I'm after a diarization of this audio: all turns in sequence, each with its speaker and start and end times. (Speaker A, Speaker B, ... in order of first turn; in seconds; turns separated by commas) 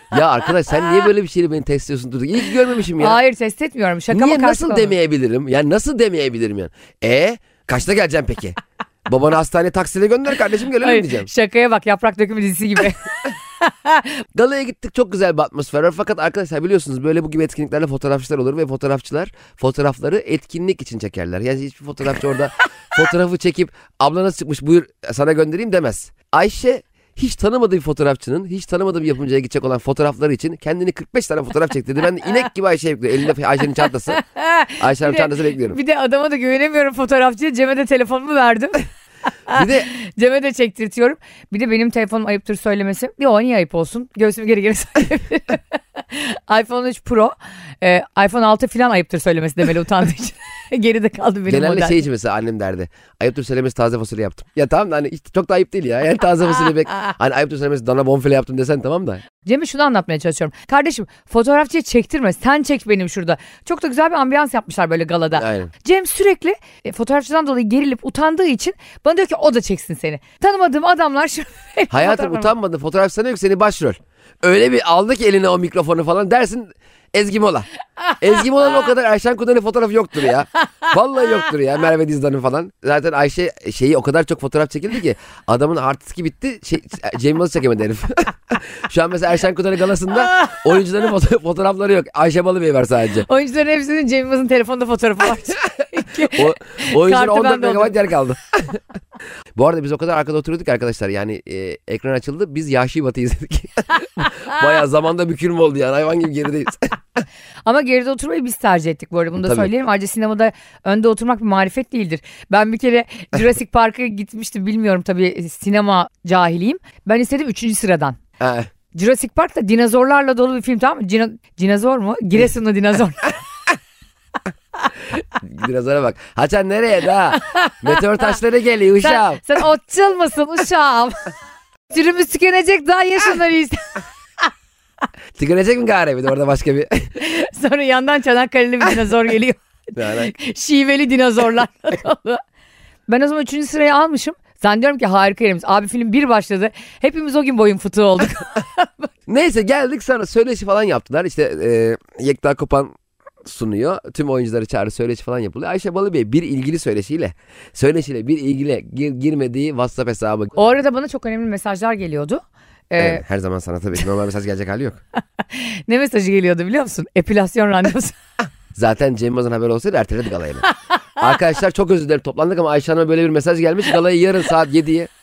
Speaker A: 0.1-3.2, Speaker B: 3.0-4.9, Speaker A: 4.1-11.3, Speaker B: 10.8-14.2, Speaker A: 14.3-34.2, Speaker B: 34.1-38.8, Speaker A: 34.8-35.8, Speaker B: 39.5-52.0, Speaker A: 39.5-39.9, Speaker A: 51.5-59.2, Speaker B: 59.4-72.5, Speaker A: 65.4-65.7, Speaker A: 71.9-77.7, Speaker A: 78.2-93.3, Speaker B: 93.2-98.0, Speaker A: 96.2-98.8, Speaker A: 99.5-107.0, Speaker B: 107.7-118.2, Speaker A: 109.4-109.7, Speaker A: 118.4-118.7, Speaker B: 118.9-123.4, Speaker A: 125.2-129.4, Speaker B: 127.5-128.0, Speaker B: 129.0-131.3, Speaker B: 131.9-134.0, Speaker A: 135.4-137.1, Speaker B: 137.2-142.4, Speaker A: 140.0-140.3, Speaker B: 143.1-149.1, Speaker A: 149.3-152.9, Speaker A: 153.4-160.6, Speaker B: 160.6-163.2, Speaker A: 163.0-165.0, Speaker B: 165.5-168.2, Speaker A: 168.8-175.1